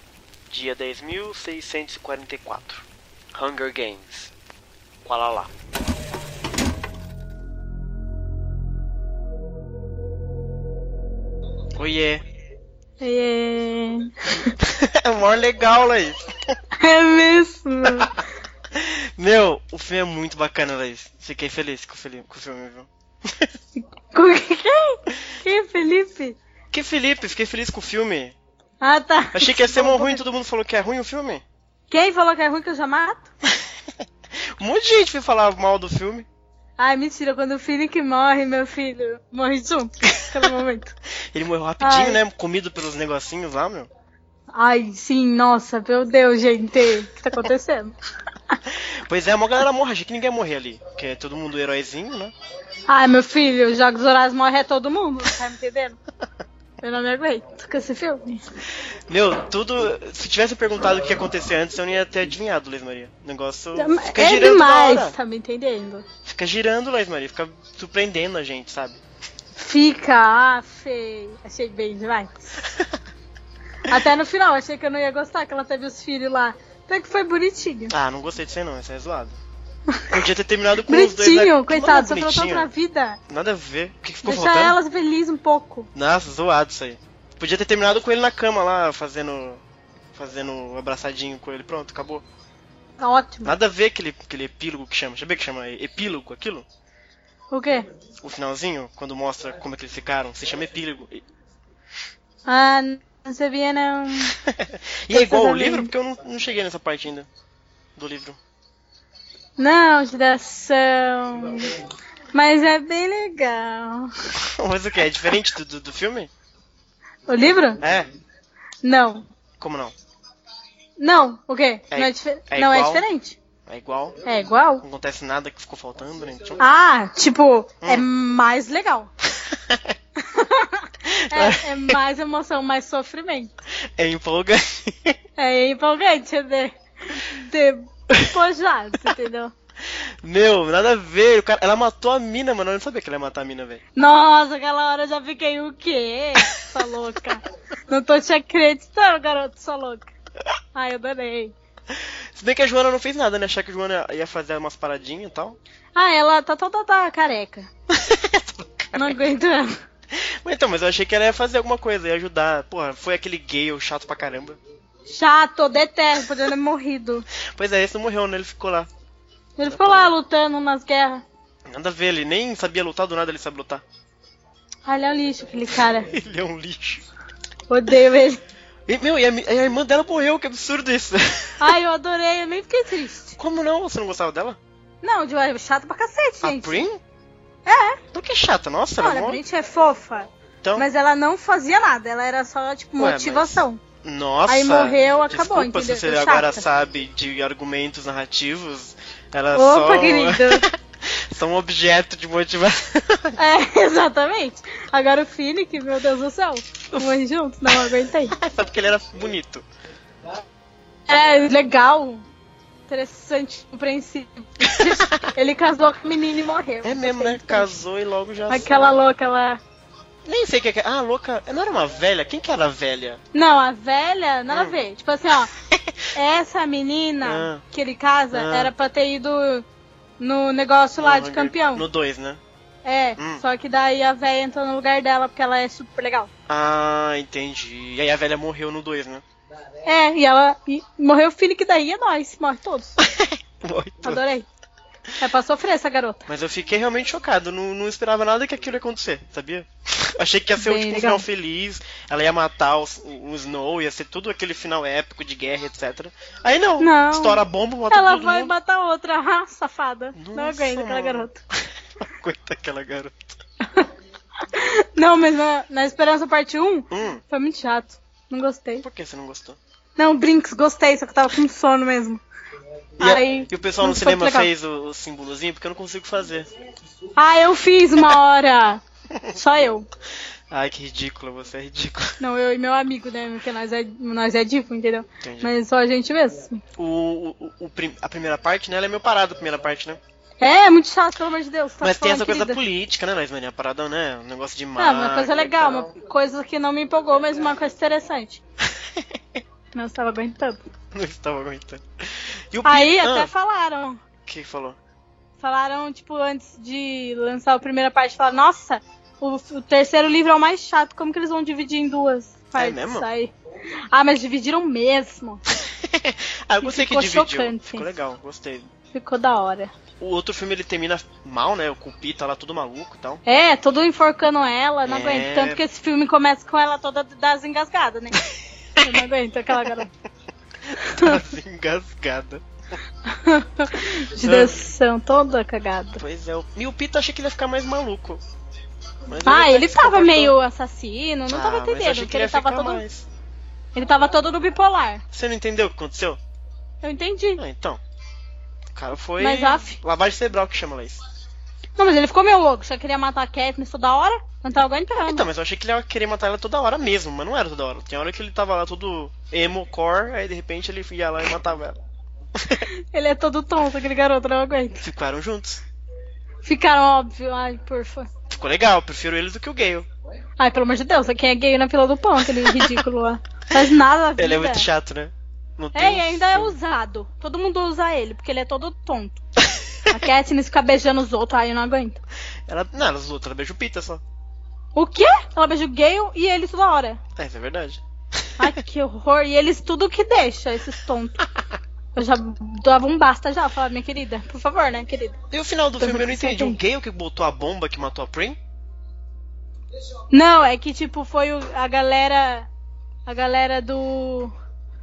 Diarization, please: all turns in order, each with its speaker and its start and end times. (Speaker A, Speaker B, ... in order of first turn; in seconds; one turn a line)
Speaker A: 0.5-4.3
Speaker A: 5.0-5.5
Speaker A: 11.8-12.2
Speaker B: 13.0-14.5
Speaker A: 14.6-16.6
Speaker B: 16.8-18.1
Speaker A: 18.7-23.5
Speaker B: 23.8-26.4
Speaker A: 26.7-28.4
Speaker B: 28.8-30.2
Speaker A: 29.4-31.4
Speaker B: 31.9-33.3
Speaker A: 34.6-36.3
Speaker B: 36.8-41.0
Speaker A: 41.3-43.9
Speaker B: 41.8-42.2
Speaker B: 44.5-48.0
Speaker A: 48.7-52.3
Speaker B: 52.9-56.0
Speaker B: 56.8-58.4
Speaker A: 59.1-65.2
Speaker B: 63.8-66.1
Speaker A: 66.3-69.0
Speaker B: 69.6-72.5
Speaker B: 73.9-77.9
Speaker A: 77.9-79.4
Speaker A: 80.1-82.7
Speaker B: 80.9-83.2
Speaker A: 83.3-84.8
Speaker B: 84.2-85.9
Speaker A: 86.0-89.6
Speaker A: 90.2-92.2
Speaker B: 93.0-93.5
Speaker A: 93.5-96.7
Speaker B: 97.5-97.8
Speaker A: 98.2-101.2
Speaker B: 102.5-104.3
Speaker A: 104.4-107.3
Speaker B: 105.1-105.9
Speaker A: 108.0-108.4
Speaker B: 109.6-111.8
Speaker B: 112.3-114.1
Speaker A: 114.4-116.3
Speaker B: 117.3-117.8
Speaker A: 117.8-118.1
Speaker B: 118.8-119.3
Speaker A: 119.6-120.0
Speaker B: 121.0-123.4
Speaker A: 121.9-123.1
Speaker A: 123.7-124.2
Speaker B: 124.2-124.8
Speaker A: 124.8-126.6
Speaker B: 126.6-129.1
Speaker A: 127.8-128.1
Speaker A: 129.5-129.8
Speaker B: 130.2-133.5
Speaker A: 131.3-132.0
Speaker A: 134.0-135.2
Speaker B: 135.4-139.5
Speaker A: 139.9-143.8
Speaker B: 143.9-150.1
Speaker B: 150.7-151.6
Speaker A: 151.9-155.6
Speaker B: 155.9-157.7
Speaker A: 157.9-159.1
Speaker B: 158.9-159.8
Speaker A: 160.1-164.6
Speaker B: 165.1-167.2
Speaker A: 167.6-168.9
Speaker B: 169.6-171.2
Speaker A: 169.6-170.1
Speaker A: 171.7-173.8
Speaker B: 174.8-176.1
Speaker A: 176.1-177.1
Speaker B: 177.7-178.4
Speaker A: 178.9-181.7
Speaker B: 181.6-183.4
Speaker A: 183.4-184.6
Speaker B: 185.0-186.8
Speaker A: 186.4-187.0
Speaker B: 187.7-188.0
Speaker A: 188.1-189.4
Speaker B: 189.0-193.8
Speaker A: 193.0-203.4
Speaker B: 194.5-196.6
Speaker B: 199.5-200.7
Speaker B: 203.4-208.3
Speaker A: 206.9-207.2
Speaker A: 208.4-209.7
Speaker B: 211.1-212.2
Speaker B: 212.9-217.8
Speaker A: 214.7-215.3
Speaker A: 216.8-218.9
Speaker B: 218.5-219.6
Speaker A: 220.3-223.2
Speaker B: 223.3-225.5
Speaker A: 224.5-224.8
Speaker B: 226.2-229.7
Speaker A: 227.2-227.7
Speaker A: 228.3-228.7
Speaker B: 230.2-231.9
Speaker A: 231.0-232.4
Speaker B: 232.8-236.3
Speaker A: 233.2-233.4
Speaker A: 236.5-239.2
Speaker B: 239.8-243.0
Speaker A: 243.0-244.2
Speaker B: 244.0-244.5
Speaker B: 245.2-246.2
Speaker A: 246.3-258.5
Speaker B: 250.6-251.2
Speaker B: 256.8-261.4
Speaker A: 260.1-261.4
Speaker A: 262.0-263.4
Speaker B: 264.5-268.9
Speaker A: 266.9-267.2
Speaker A: 268.8-269.6
Speaker B: 270.0-272.2
Speaker B: 273.0-274.5
Speaker A: 273.0-276.5
Speaker B: 277.2-278.8
Speaker B: 279.3-279.9
Speaker A: 280.5-282.1
Speaker B: 282.2-286.6
Speaker A: 285.2-285.5
Speaker A: 286.8-290.0
Speaker B: 290.4-292.6
Speaker A: 291.8-295.9
Speaker B: 294.8-298.4
Speaker B: 299.7-300.6
Speaker A: 300.9-303.3
Speaker B: 302.6-304.0
Speaker A: 304.3-304.8
Speaker B: 305.4-313.3
Speaker A: 312.6-313.1
Speaker B: 313.9-315.4
Speaker A: 315.8-318.7
Speaker B: 316.6-317.9
Speaker B: 318.9-319.7
Speaker A: 320.0-323.2
Speaker B: 323.3-328.2
Speaker A: 324.9-325.6
Speaker B: 328.8-329.9
Speaker A: 330.7-332.4
Speaker B: 330.8-331.2
Speaker B: 333.1-336.0
Speaker A: 334.2-334.6
Speaker A: 336.0-338.2
Speaker A: 339.1-340.3
Speaker B: 339.2-342.8
Speaker A: 341.3-343.1
Speaker B: 343.7-345.0
Speaker A: 345.1-346.2
Speaker B: 346.8-347.4
Speaker A: 347.4-347.8
Speaker A: 348.7-351.0
Speaker B: 349.2-349.8
Speaker B: 351.8-355.2
Speaker A: 355.1-361.8
Speaker A: 362.4-362.6
Speaker B: 362.6-364.8
Speaker A: 364.8-365.6
Speaker B: 366.4-368.1
Speaker A: 368.3-369.9
Speaker B: 370.4-374.7
Speaker A: 372.4-372.8
Speaker A: 374.2-376.6
Speaker B: 375.8-379.2
Speaker B: 379.9-382.0
Speaker A: 382.5-384.0
Speaker B: 384.8-387.0
Speaker A: 387.2-388.5
Speaker B: 388.4-391.2
Speaker B: 391.9-395.2
Speaker A: 395.3-398.4
Speaker B: 395.8-396.6
Speaker B: 400.1-402.5
Speaker B: 403.1-404.3